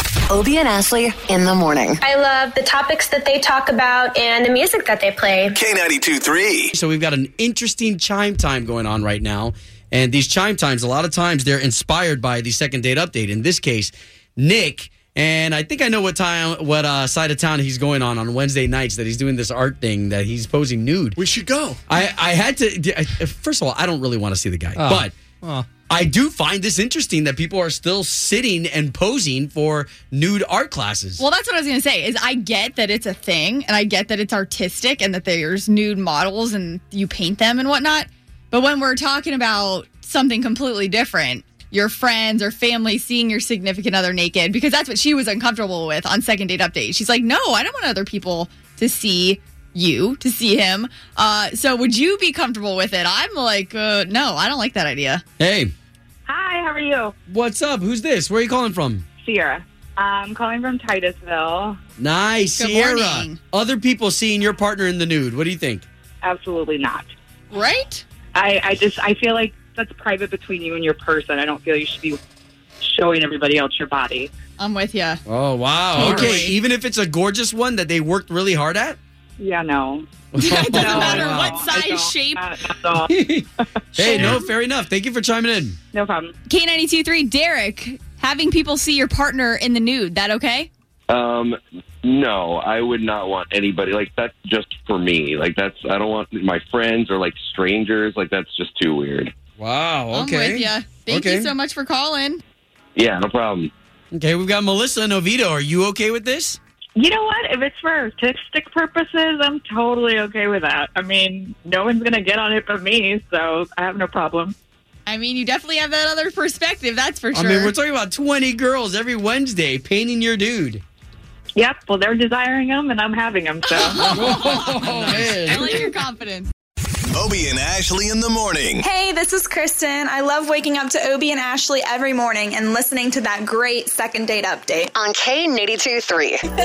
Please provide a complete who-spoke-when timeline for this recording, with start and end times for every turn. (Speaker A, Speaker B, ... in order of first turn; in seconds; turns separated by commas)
Speaker A: 0.3-2.0, Speaker B: 2.0-5.6, Speaker C: 5.5-6.7, Speaker D: 6.7-21.2, Speaker E: 21.1-21.8, Speaker D: 21.9-25.1, Speaker E: 24.8-25.7, Speaker D: 25.9-31.2, Speaker F: 31.2-55.2, Speaker D: 55.4-55.7, Speaker G: 56.3-57.1, Speaker D: 57.3-59.0, Speaker G: 59.2-61.8, Speaker D: 62.0-65.9, Speaker F: 62.5-63.4, Speaker G: 66.2-67.1, Speaker F: 67.5-68.0, Speaker G: 68.3-72.2, Speaker G: 72.8-74.3, Speaker F: 74.6-75.2, Speaker D: 75.2-79.0, Speaker F: 75.9-76.5, Speaker E: 76.0-76.4, Speaker G: 79.4-84.4, Speaker D: 80.3-81.7, Speaker F: 80.4-82.4, Speaker D: 83.1-85.8, Speaker F: 84.0-84.3, Speaker G: 85.9-86.3, Speaker F: 86.5-90.7, Speaker H: 91.1-99.3, Speaker D: 99.6-101.5, Speaker F: 100.1-102.4, Speaker H: 103.0-103.7, Speaker D: 104.1-106.6, Speaker G: 107.0-114.5, Speaker F: 115.1-117.7, Speaker D: 117.3-120.8, Speaker G: 121.5-124.3, Speaker F: 123.6-126.5, Speaker D: 124.0-125.9, Speaker C: 127.1-128.8, Speaker I: 128.8-134.9, Speaker A: 134.9-136.4